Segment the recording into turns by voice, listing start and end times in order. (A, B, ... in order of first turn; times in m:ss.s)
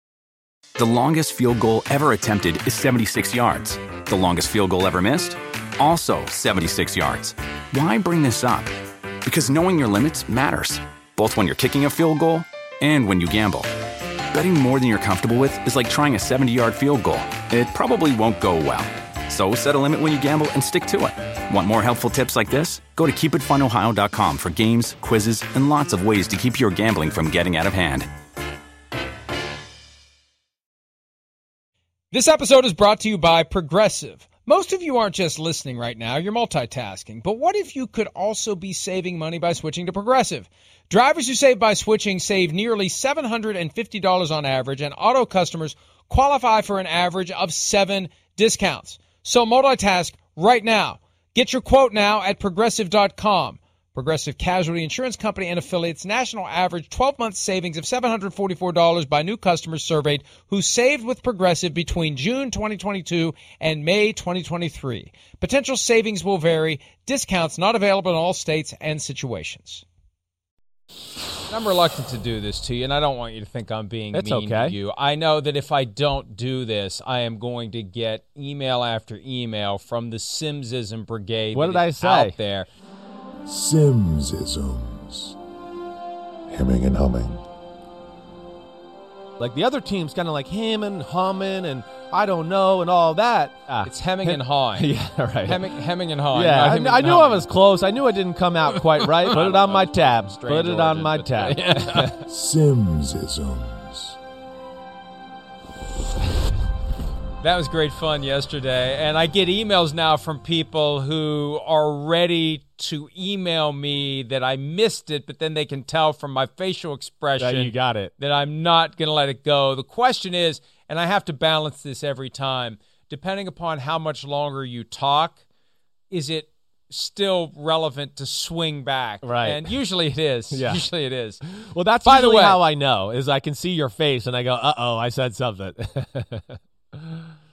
0:00.8-0:08.7 A
0:09.2-0:13.7 A
0:14.3-0:28.1 A
0:32.1-1:09.8 B
1:11.5-1:22.7 B
1:14.1-1:14.8 C
1:21.5-1:22.3 C
1:23.4-1:25.3 D
1:26.5-1:27.4 D
1:29.4-1:35.6 C
1:33.8-1:34.9 B
1:35.4-1:37.5 B
1:36.3-1:42.1 C
1:39.0-1:42.2 B
1:42.3-1:44.2 D
1:47.4-2:05.4 B
1:57.4-1:58.1 C
2:06.1-2:11.4 B
2:09.2-2:09.7 C
2:10.5-2:10.8 C
2:11.5-2:17.2 C
2:12.0-2:12.6 B